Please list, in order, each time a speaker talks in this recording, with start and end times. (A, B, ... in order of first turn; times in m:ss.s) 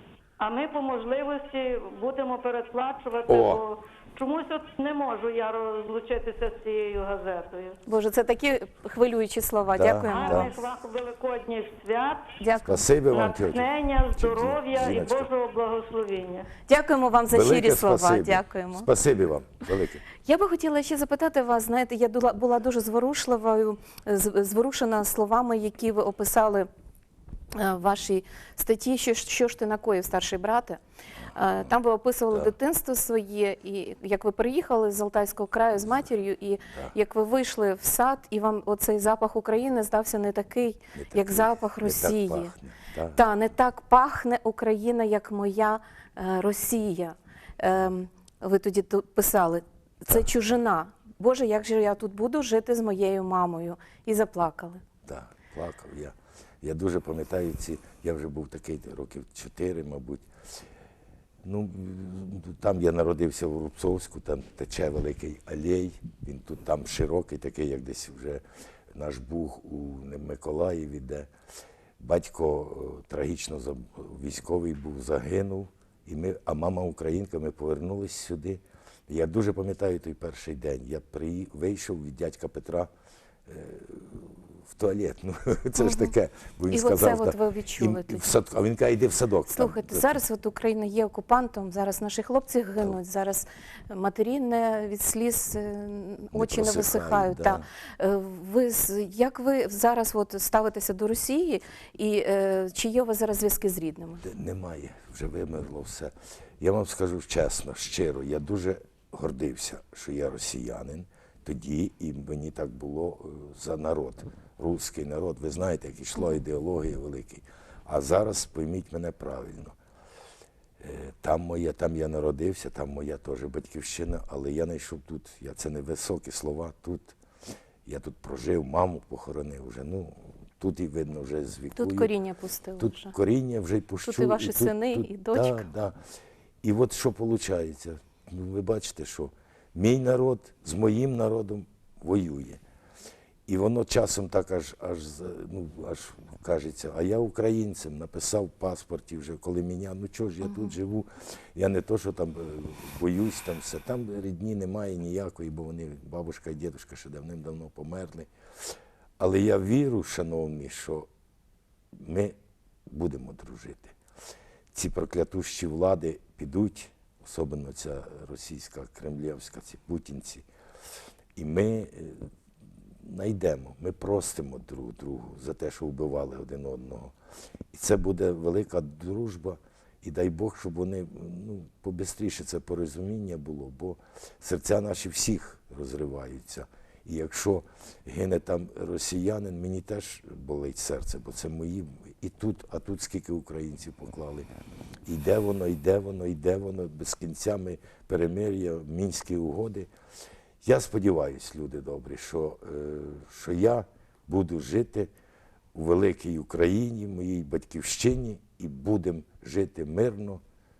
0:00.4-0:07.8 A
0:03.3-0:03.6 B
0:07.8-0:10.5 C
0:09.7-0:10.5 B
0:10.1-0:12.3 A
0:12.4-0:12.8 C
0:12.6-0:15.3 B
0:13.1-0:16.5 A
0:16.7-0:18.9 C
0:17.3-0:20.0 B
0:20.2-0:26.7 C
0:27.5-0:30.8 C
0:31.3-0:42.5 C
0:41.0-0:43.2 B
0:43.1-0:54.8 C
0:55.0-1:00.3 B
1:01.4-1:11.3 B
1:12.0-1:22.9 B
1:23.5-1:30.1 B
1:25.7-1:26.1 C
1:26.7-1:28.3 C
1:29.5-1:44.2 C
1:36.3-1:37.6 B
1:44.2-1:59.7 B
2:00.8-2:07.2 B
2:07.8-2:12.1 B
2:11.8-2:13.1 C
2:12.8-2:16.0 B
2:14.0-2:15.6 C
2:16.6-2:22.6 B
2:23.5-2:38.3 B
2:39.2-2:41.1 B
2:41.9-2:42.4 B
2:42.9-2:43.9 B
2:44.7-2:50.4 B
2:51.4-2:52.3 B
2:53.0-2:57.1 B
2:57.7-3:14.5 B
3:15.0-3:19.9 B
3:20.6-3:25.1 B
3:25.7-3:30.4 B